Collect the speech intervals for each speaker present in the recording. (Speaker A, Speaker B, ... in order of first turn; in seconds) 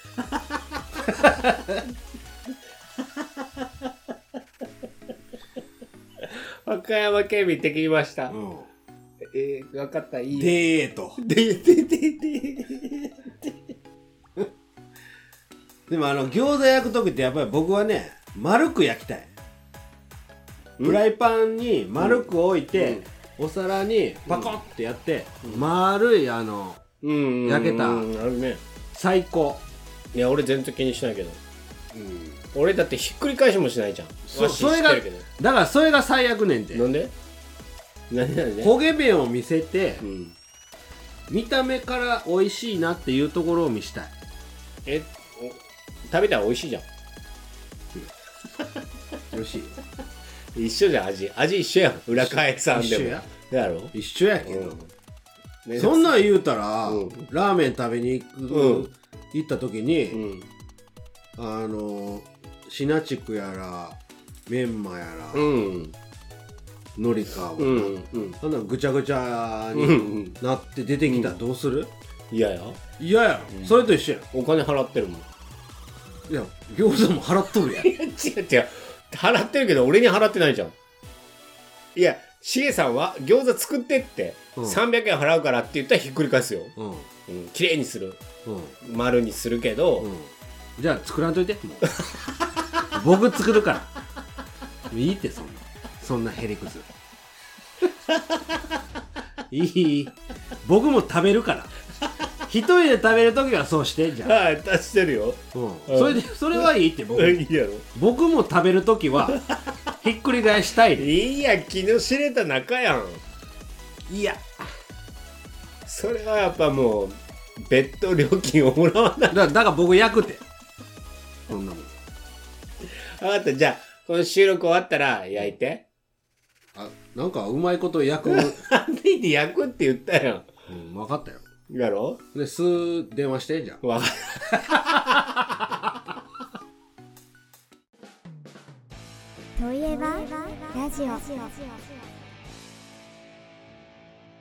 Speaker A: 1.1-1.8, 8.3-8.7, 10.3-11.2, 15.9-19.3, 20.8-26.8, 27.4-28.1, 28.9-29.6, 31.9-32.4, 34.3-36.9, 38.6-40.0, 41.3-44.1, 49.3-49.7, 52.1-53.2, 53.9-54.8, 55.8-60.2, 61.4-65.4, 67.0-71.9, 73.0-74.2, 76.3-77.9, 86.8-87.1, 88.5-88.8, 90.0-91.8, 92.9-93.9, 94.9-96.9, 99.5-101.7, 102.5-104.3, 105.5-107.4, 107.9-109.4, 110.0-111.0, 114.1-114.5, 119.3-120.4, 121.5-121.9, 126.7-128.6, 130.7-131.4, 132.3-133.8
Speaker B: 6.6-8.3, 9.2-10.5, 11.2-13.6, 22.0-23.0, 24.3-24.6, 27.0-28.6, 30.1-31.4, 32.5-35.2, 36.7-37.1, 38.1-38.7, 40.0-40.4, 44.9-46.9, 50.5-54.9, 55.6-56.2, 56.9-57.3, 58.5-58.9, 60.1-60.5, 65.3-66.0, 67.6-68.4, 69.7-70.4, 71.1-71.4, 72.3-72.8, 73.5-75.3, 77.7-80.7, 81.9-86.7, 87.3-88.2, 88.8-90.1, 104.2-107.8, 109.3-109.6, 110.9-113.2, 115.8-119.5, 122.9-125.8, 128.2-130.5, 131.7-132.2, 133.8-135.3
Speaker C: 139.6-142.0